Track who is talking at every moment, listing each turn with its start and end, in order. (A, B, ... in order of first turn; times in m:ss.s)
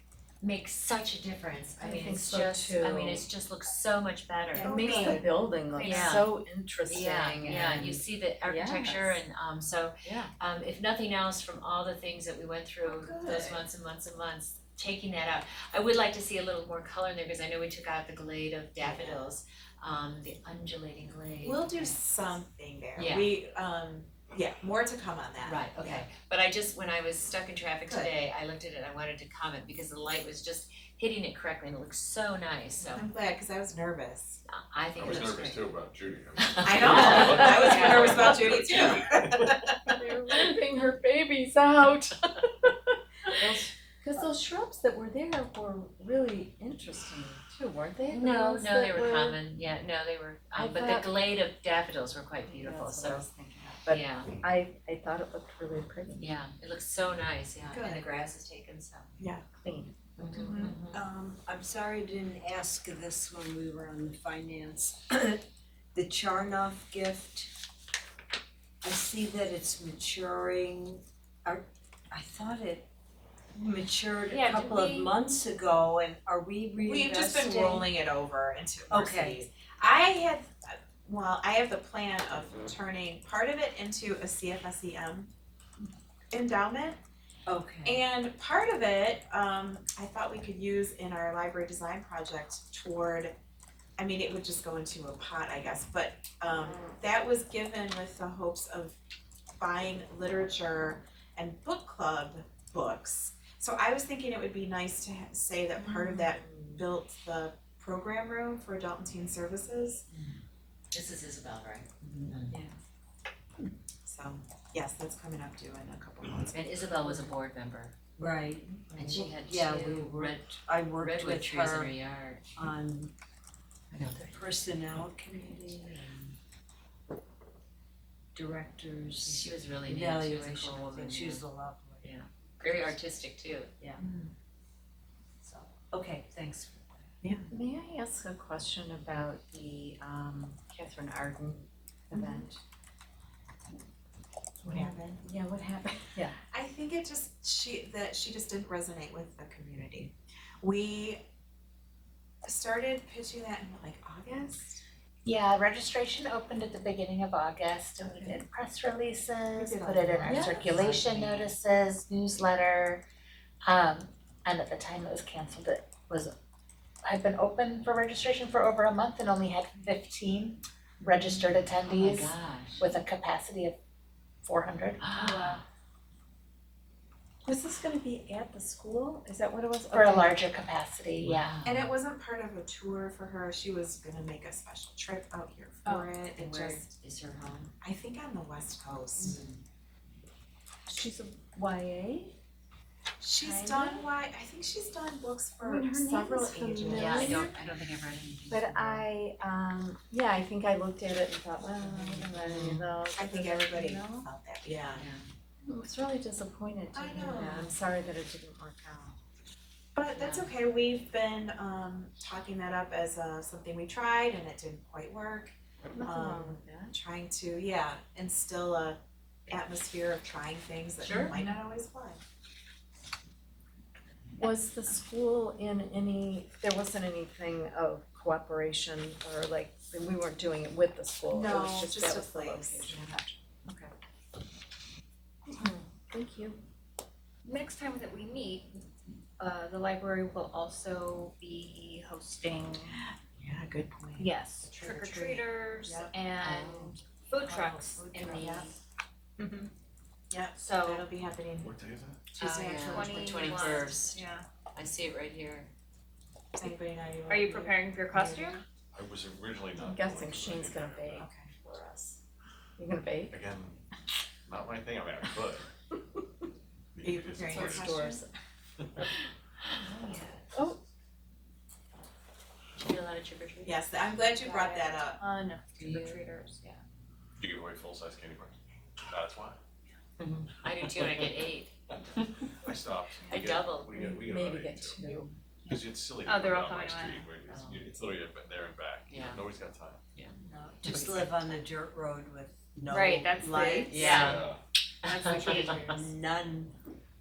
0:00.4-0:05.2 A
0:01.8-0:03.3 B
0:04.5-0:05.2 C
0:04.7-0:09.2 B
0:05.8-0:06.1 C
0:05.8-0:06.3 A
0:06.8-0:22.0 A
0:12.8-0:13.6 C
0:18.8-0:19.2 C
0:21.4-0:26.1 C
0:23.0-0:23.3 A
0:25.4-0:33.1 A
0:27.8-0:28.1 C
0:32.8-0:34.4 C
0:34.5-0:35.6 A
0:34.9-0:39.6 D
0:36.4-0:38.3 A
0:36.6-0:39.2 C
0:39.9-0:42.5 B
0:43.4-0:49.4 B
0:48.1-0:53.3 A
0:50.6-0:51.0 B
0:52.5-0:56.3 B
0:53.9-0:54.4 A
0:56.2-0:59.2 A
0:57.7-0:58.1 C
0:59.2-0:59.4 C
0:59.6-1:00.7 B
1:00.2-1:01.0 A
1:00.9-1:05.4 E
1:05.9-1:07.5 E
1:08.8-1:12.9 E
1:13.5-1:17.9 E
1:14.3-1:15.1 A
1:14.3-1:14.8 F
1:16.8-1:25.3 C
1:18.9-1:19.4 E
1:26.3-1:27.0 C
1:27.5-1:28.0 E
1:27.8-1:33.3 C
1:34.0-1:39.0 C
1:39.6-1:50.0 C
1:50.1-1:50.4 A
1:50.9-1:52.6 A
1:54.0-1:56.9 C
1:56.5-1:57.9 A
1:58.2-2:01.9 E
1:58.9-2:02.4 A
2:02.5-2:03.1 E
2:03.9-2:04.4 A
2:04.2-2:06.3 E
2:08.3-2:12.1 E
2:09.2-2:11.4 A
2:12.0-2:13.7 A
2:15.4-2:17.1 E
2:17.5-2:22.6 B
2:22.1-2:22.4 C
2:24.6-2:25.2 C
2:25.2-2:26.4 B
2:26.4-2:31.2 C
2:32.4-2:34.8 C
2:35.2-2:43.0 G
2:38.1-2:38.4 C
2:39.6-2:40.6 C
2:40.2-2:41.5 A
2:43.6-2:46.3 G
2:47.0-2:53.8 G
2:51.0-2:52.9 A
2:54.4-2:55.5 G
2:55.0-2:55.6 A
2:57.5-3:00.4 B
2:59.7-3:01.6 G
3:01.2-3:01.9 A
3:01.6-3:06.8 C
3:06.4-3:07.7 A
3:07.8-3:09.4 C
3:09.2-3:09.6 A
3:11.0-3:12.3 G
3:11.0-3:11.9 B
3:13.2-3:17.5 C
3:13.5-3:14.0 G
3:15.6-3:17.3 B
3:16.9-3:19.1 A
3:18.5-3:20.6 G
3:19.4-3:21.9 B
3:21.8-3:23.8 G
3:21.8-3:22.8 A
3:22.5-3:25.0 C
3:22.6-3:24.2 B
3:24.9-3:25.3 A
3:25.7-3:26.2 G
3:26.2-3:29.0 B
3:26.8-3:27.3 G
3:26.9-3:27.7 C
3:27.8-3:29.2 G
3:29.9-3:42.2 C
3:30.1-3:30.5 A
3:36.0-3:36.9 G
3:36.2-3:36.6 B
3:41.0-3:41.3 A
3:44.4-3:45.5 G
3:44.7-3:50.8 B
3:49.0-3:51.6 G
3:51.3-3:53.2 C
3:51.4-3:53.1 B
3:52.4-3:52.9 G
3:56.1-3:56.5 B
3:57.4-3:58.8 F
3:59.4-4:02.9 F
4:03.0-4:06.1 C
4:04.7-4:08.7 F
4:06.4-4:07.0 A
4:07.4-4:08.7 C
4:09.4-4:09.7 F
4:10.3-4:11.7 C
4:10.6-4:11.0 F
4:11.6-4:12.2 D
4:12.3-4:13.8 C
4:12.4-4:14.2 A
4:12.8-4:14.4 F
4:14.7-4:15.7 A
4:16.6-4:18.6 C
4:17.3-4:18.6 F
4:18.9-4:21.2 D
4:19.8-4:21.3 B
4:21.1-4:22.2 C
4:22.8-4:23.4 B
4:23.3-4:23.8 D
4:24.5-4:25.6 D
4:26.9-4:28.0 D
4:27.0-4:28.2 C
4:27.5-4:28.2 B
4:28.8-4:29.0 D
4:29.7-4:30.4 A
4:32.8-4:33.7 A
4:33.6-4:35.2 C
4:34.4-4:36.8 F
4:35.8-4:36.2 A
4:37.4-4:38.5 D
4:39.1-4:39.6 D
4:40.2-4:42.5 A
4:40.9-4:41.2 D
4:42.6-4:45.0 D
4:43.2-4:43.9 A
4:44.3-4:45.3 B
4:45.6-4:50.0 D
4:46.2-4:47.3 F
4:47.5-4:47.8 A
4:49.1-4:49.4 A
4:50.1-4:51.6 A
4:50.4-4:54.2 E
4:52.9-4:54.4 F
4:53.9-4:54.5 A
4:53.9-4:54.6 D
4:55.0-4:55.9 A
4:55.0-4:56.0 F
4:55.2-4:56.7 E